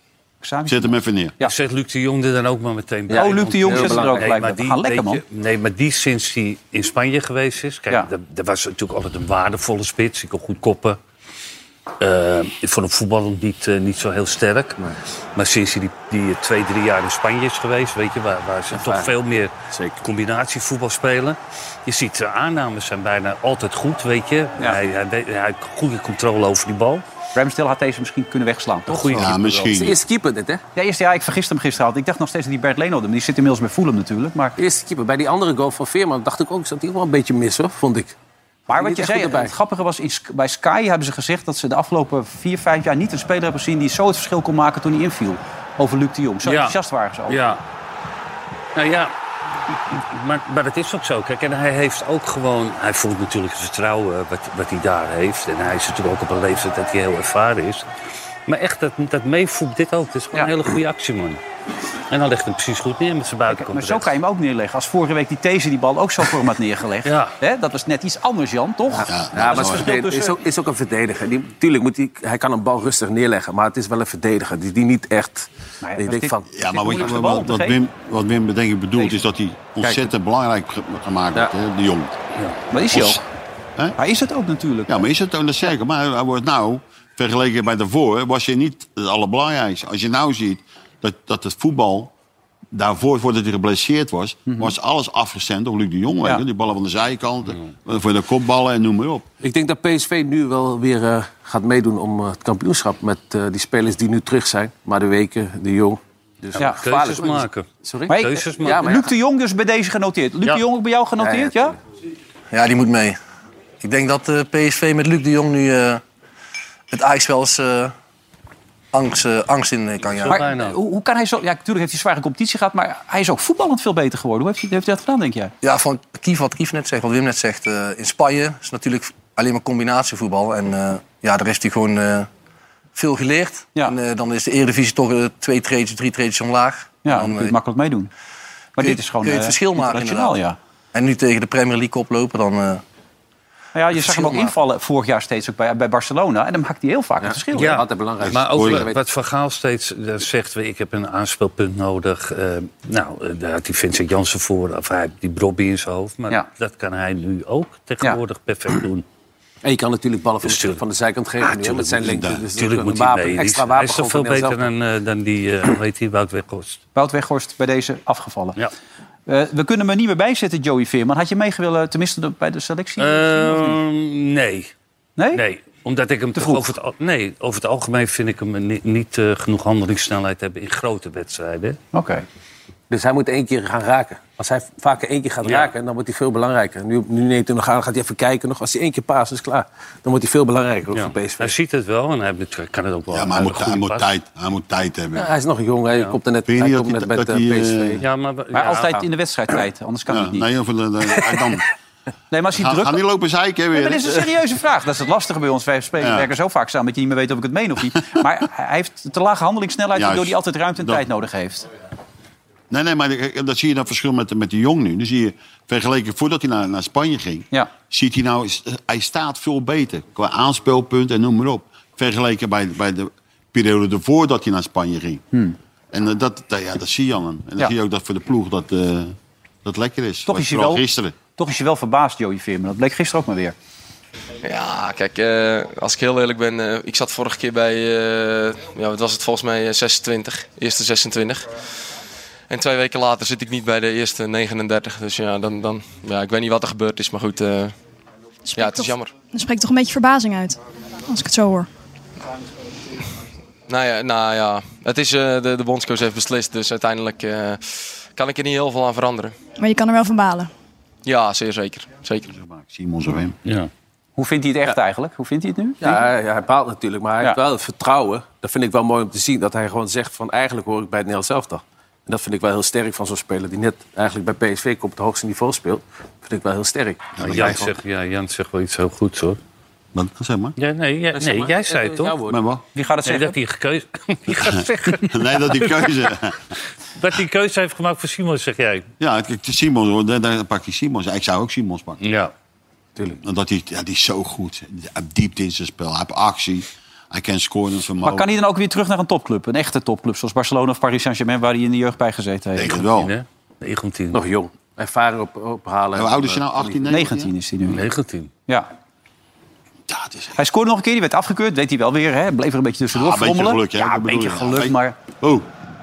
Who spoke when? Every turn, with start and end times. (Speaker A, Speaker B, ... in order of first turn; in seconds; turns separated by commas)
Speaker A: 0.4-1.5, Speaker B: 0.7-1.4, Speaker C: 1.4-11.0, Speaker D: 3.1-4.3, Speaker A: 3.1-5.2, Speaker C: 12.0-14.8, Speaker C: 15.3-27.0, Speaker D: 18.7-19.1, Speaker D: 19.7-20.0, Speaker A: 27.3-29.4, Speaker C: 28.9-29.6, Speaker B: 29.1-30.0, Speaker D: 29.7-30.6, Speaker A: 30.7-34.6, Speaker D: 34.6-38.1, Speaker A: 38.7-47.4, Speaker D: 38.7-39.5, Speaker C: 46.4-46.7, Speaker C: 47.3-47.6, Speaker C: 48.7-49.1, Speaker C: 49.7-57.8, Speaker C: 58.5-61.4, Speaker C: 62.1-64.1, Speaker A: 63.5-70.3, Speaker C: 67.0-67.3, Speaker B: 69.0-69.9, Speaker D: 69.3-76.5, Speaker A: 75.8-77.8, Speaker B: 76.5-82.1, Speaker A: 82.7-83.2, Speaker B: 82.9-83.2, Speaker A: 84.0-85.0, Speaker B: 84.9-92.1, Speaker B: 92.7-99.3, Speaker A: 94.5-94.7, Speaker D: 99.4-109.1, Speaker C: 106.6-109.0, Speaker A: 108.1-111.8, Speaker D: 111.2-111.7, Speaker E: 112.5-113.2, Speaker E: 113.8-116.0, Speaker E: 116.9-117.9, Speaker E: 118.9-120.4, Speaker C: 120.0-120.8, Speaker A: 120.3-125.5, Speaker E: 125.6-132.3, Speaker E: 132.9-137.5, Speaker A: 137.0-138.1, Speaker A: 138.8-140.6, Speaker E: 138.8-140.4, Speaker E: 140.9-142.8, Speaker A: 143.7-147.8, Speaker E: 143.9-144.5, Speaker D: 147.2-149.0, Speaker C: 147.5-159.0, Speaker B: 148.2-148.9, Speaker D: 159.6-164.7, Speaker C: 160.4-160.8, Speaker C: 161.4-166.8, Speaker B: 162.1-162.4, Speaker A: 166.9-168.6, Speaker A: 169.3-173.8, Speaker C: 173.0-174.7, Speaker A: 175.2-175.4, Speaker C: 175.3-181.8, Speaker A: 176.3-176.7, Speaker A: 181.9-182.2, Speaker D: 182.9-191.5, Speaker C: 185.4-185.7, Speaker C: 190.9-194.1, Speaker B: 193.1-195.3, Speaker D: 195.1-198.0, Speaker B: 196.5-198.0, Speaker C: 198.0-199.1, Speaker A: 198.5-200.5, Speaker B: 200.1-201.6, Speaker A: 202.3-203.0, Speaker B: 202.5-204.2, Speaker A: 203.7-211.7, Speaker B: 206.0-206.3, Speaker B: 209.9-211.0, Speaker B: 212.7-225.2, Speaker B: 225.9-231.1, Speaker A: 230.2-230.8, Speaker A: 231.3-233.5, Speaker F: 234.4-241.5, Speaker F: 242.5-247.8, Speaker G: 248.5-251.7, Speaker F: 248.6-249.1, Speaker F: 253.7-259.4, Speaker G: 259.5-260.5, Speaker F: 261.0-262.3, Speaker B: 262.2-263.4, Speaker C: 263.4-263.7, Speaker A: 264.2-266.0, Speaker D: 265.8-277.7, Speaker B: 277.2-277.6, Speaker C: 277.2-279.4, Speaker B: 279.9-280.6, Speaker C: 280.6-282.2, Speaker D: 281.1-282.4, Speaker B: 282.3-282.6, Speaker A: 282.7-283.4, Speaker C: 283.0-286.1, Speaker B: 284.6-286.4, Speaker C: 287.0-288.9, Speaker B: 289.0-292.0, Speaker C: 292.0-292.3, Speaker B: 293.2-298.3, Speaker A: 298.0-302.8, Speaker B: 302.6-303.1, Speaker C: 302.7-304.2, Speaker D: 304.1-306.8, Speaker B: 305.9-307.3, Speaker A: 306.9-307.8, Speaker C: 307.7-308.3, Speaker B: 309.9-310.3, Speaker A: 310.4-315.0, Speaker B: 312.9-315.5